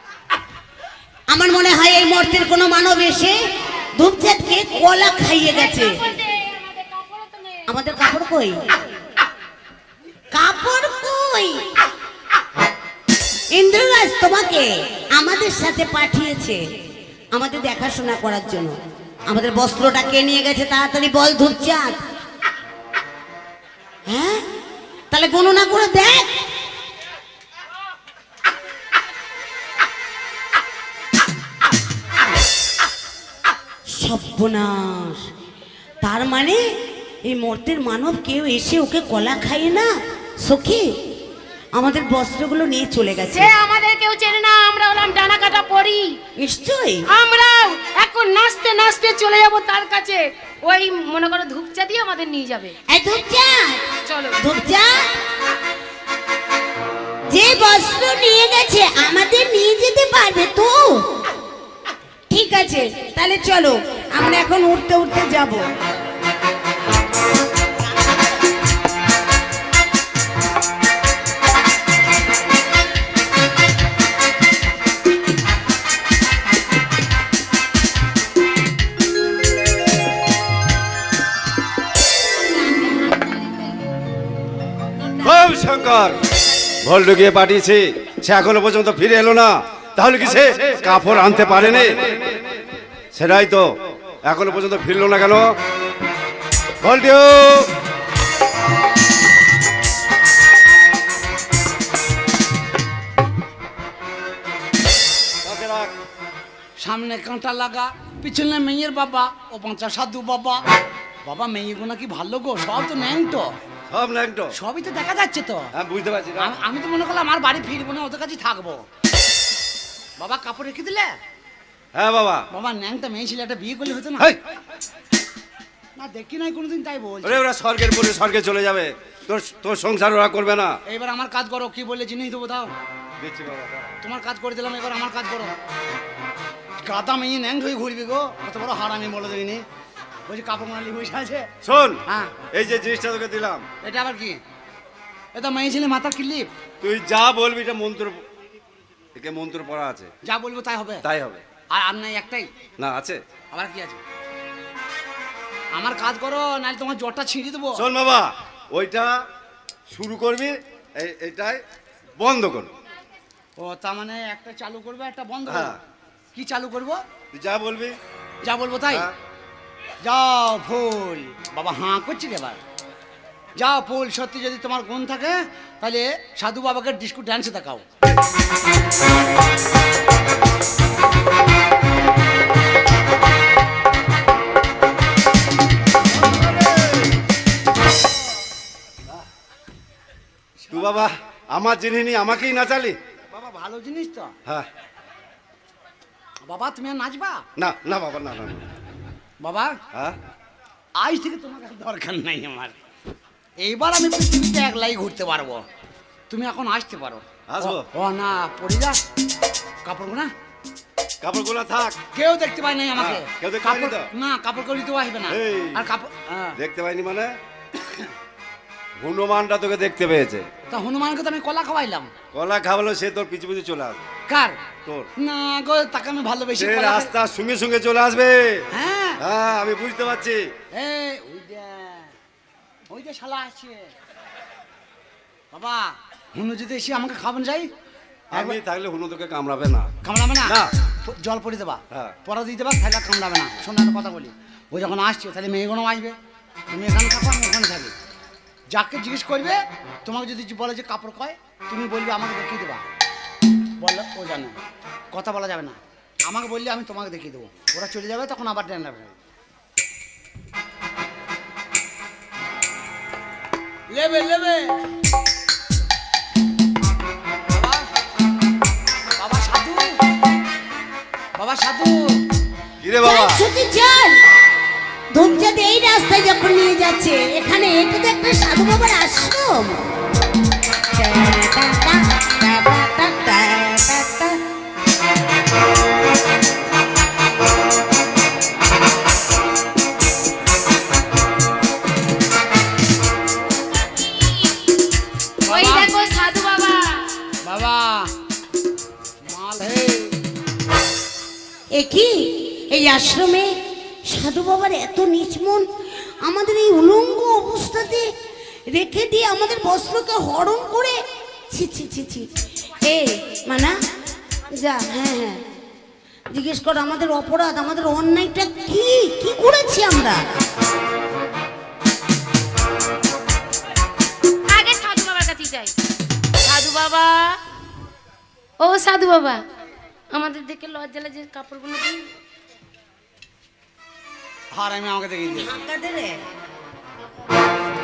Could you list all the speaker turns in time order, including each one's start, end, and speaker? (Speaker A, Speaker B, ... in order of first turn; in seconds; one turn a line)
Speaker A: 1.3-3.4
Speaker A: 3.9-6.0
Speaker B: 5.5-7.7
Speaker A: 7.7-8.7
Speaker A: 10.3-11.7
Speaker A: 13.5-16.6
Speaker A: 17.3-22.0
Speaker A: 24.1-24.4
Speaker A: 25.1-26.4
Speaker A: 33.9-35.3
Speaker A: 36.0-36.6
Speaker A: 37.2-40.9
Speaker A: 41.7-43.5
Speaker B: 43.3-46.2
Speaker A: 46.4-47.1
Speaker B: 47.1-52.7
Speaker A: 52.9-53.9
Speaker B: 54.1-54.4
Speaker A: 54.4-55.0
Speaker A: 57.3-61.2
Speaker A: 62.3-65.7
Speaker C: 85.2-86.2
Speaker C: 86.8-92.5
Speaker C: 93.2-95.6
Speaker C: 96.8-97.7
Speaker C: 105.4-105.9
Speaker D: 106.8-110.6
Speaker D: 111.2-113.5
Speaker C: 113.9-114.5
Speaker D: 114.5-115.7
Speaker C: 115.7-116.5
Speaker D: 116.4-118.8
Speaker D: 120.2-121.2
Speaker C: 122.0-122.5
Speaker D: 122.5-124.3
Speaker D: 126.0-127.4
Speaker C: 127.2-130.8
Speaker D: 130.9-132.7
Speaker C: 133.2-133.9
Speaker D: 134.0-135.5
Speaker D: 136.8-139.6
Speaker D: 140.3-141.5
Speaker C: 141.6-142.0
Speaker D: 142.1-142.3
Speaker C: 142.5-143.7
Speaker D: 143.8-144.4
Speaker D: 145.3-146.5
Speaker C: 146.8-148.2
Speaker C: 149.2-150.1
Speaker D: 150.2-151.1
Speaker C: 151.0-151.4
Speaker D: 151.7-152.5
Speaker C: 152.8-153.2
Speaker D: 153.5-154.0
Speaker D: 155.8-157.8
Speaker C: 157.8-159.2
Speaker C: 159.9-161.6
Speaker C: 162.2-162.7
Speaker D: 163.6-165.8
Speaker C: 165.5-165.8
Speaker D: 166.3-167.0
Speaker C: 167.3-168.0
Speaker D: 168.4-169.1
Speaker D: 170.0-172.6
Speaker D: 173.6-177.8
Speaker C: 186.2-186.7
Speaker C: 190.7-193.0
Speaker D: 193.3-194.4
Speaker D: 196.4-197.4
Speaker C: 197.6-198.7
Speaker D: 199.4-199.8
Speaker D: 201.0-202.8
Speaker D: 203.6-205.6
Speaker D: 206.3-209.0
Speaker C: 207.5-207.8
Speaker D: 209.8-210.3
Speaker C: 211.2-212.0
Speaker D: 212.1-216.6
Speaker C: 213.0-214.1
Speaker C: 215.3-215.8
Speaker C: 216.6-217.4
Speaker C: 219.0-220.5
Speaker D: 220.7-222.1
Speaker C: 222.3-224.0
Speaker D: 224.3-224.6
Speaker D: 225.2-227.1
Speaker C: 226.6-228.7
Speaker D: 228.7-229.2
Speaker C: 229.2-230.5
Speaker D: 230.7-232.1
Speaker D: 232.9-233.9
Speaker D: 235.5-237.7
Speaker C: 238.3-239.9
Speaker D: 238.3-238.6
Speaker D: 240.0-246.2
Speaker C: 240.4-240.7
Speaker D: 246.7-247.9
Speaker D: 248.7-252.8
Speaker D: 253.8-254.6
Speaker D: 255.1-259.1
Speaker D: 263.9-264.8
Speaker D: 267.5-267.9
Speaker D: 269.2-270.0
Speaker D: 271.4-272.1
Speaker C: 272.8-273.4
Speaker A: 273.0-274.2
Speaker A: 275.1-279.8
Speaker A: 280.9-284.4
Speaker B: 293.9-294.8
Speaker D: 295.4-295.9
Speaker B: 295.5-297.1
Speaker D: 297.4-298.1
Speaker D: 299.2-300.1
Speaker A: 301.7-303.5
Speaker A: 304.1-305.7
Speaker A: 306.2-308.1
Speaker A: 308.7-311.0
Speaker A: 311.5-312.3
Speaker A: 312.8-313.8
Speaker A: 314.5-315.4
Speaker A: 316.3-320.3
Speaker B: 324.5-325.8
Speaker B: 326.4-327.4
Speaker B: 328.6-329.4
Speaker B: 330.1-332.1
Speaker D: 334.5-335.6
Speaker A: 335.3-336.2